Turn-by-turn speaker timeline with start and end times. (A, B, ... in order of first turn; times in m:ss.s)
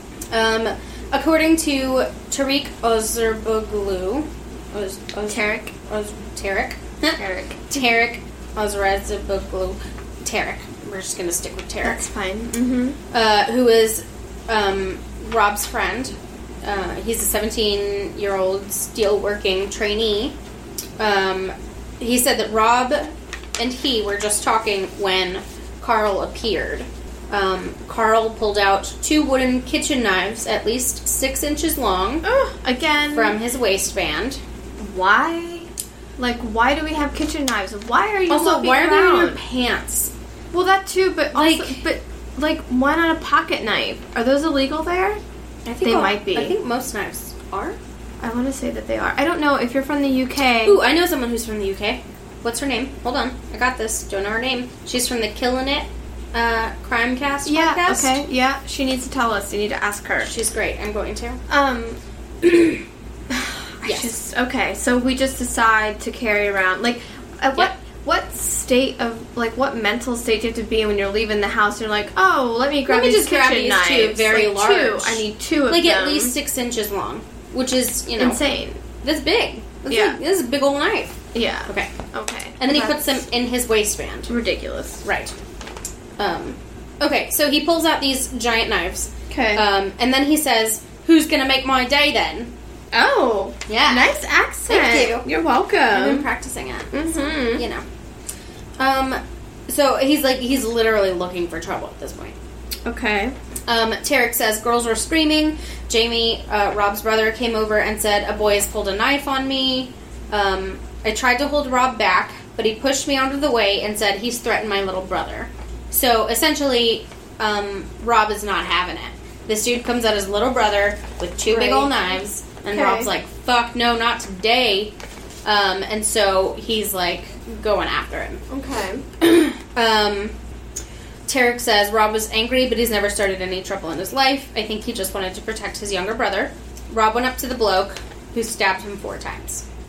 0:00.3-0:12.0 A
0:05.3-0:05.7 B
0:07.2-0:07.7 B
0:11.8-0:13.0 B
0:13.1-0:20.4 A
0:21.0-0:32.2 A
0:32.2-0:33.4 B
0:33.1-0:34.4 A
0:34.8-0:35.7 B
0:36.2-0:39.4 B
0:38.3-0:40.1 A
0:40.5-0:45.2 B
0:41.3-0:41.8 A
0:45.6-0:47.8 A
0:45.8-0:46.6 B
0:48.2-0:50.8 B
0:50.6-0:58.1 A
0:57.4-1:00.4 B
1:00.2-1:01.4 A
1:01.5-1:16.3 B
1:03.8-1:04.1 A
1:12.9-1:18.4 A
1:18.2-1:18.8 B
1:19.0-1:21.9 A
1:19.9-1:20.2 B
1:21.3-1:23.1 B
1:22.6-1:24.3 A
1:24.3-1:25.0 B
1:25.0-1:25.3 A
1:26.2-1:32.5 A
1:29.3-1:29.6 B
1:32.9-1:36.2 B
1:33.7-1:34.1 A
1:34.7-1:35.3 A
1:35.9-1:37.8 A
1:36.9-1:37.6 B
1:38.8-1:42.4 A
1:42.8-1:43.3 B
1:43.7-2:04.9 A
2:01.5-2:01.9 B
2:02.7-2:03.1 B
2:05.4-2:08.4 A
2:08.5-2:09.0 B
2:09.2-2:10.3 A
2:11.3-2:19.6 A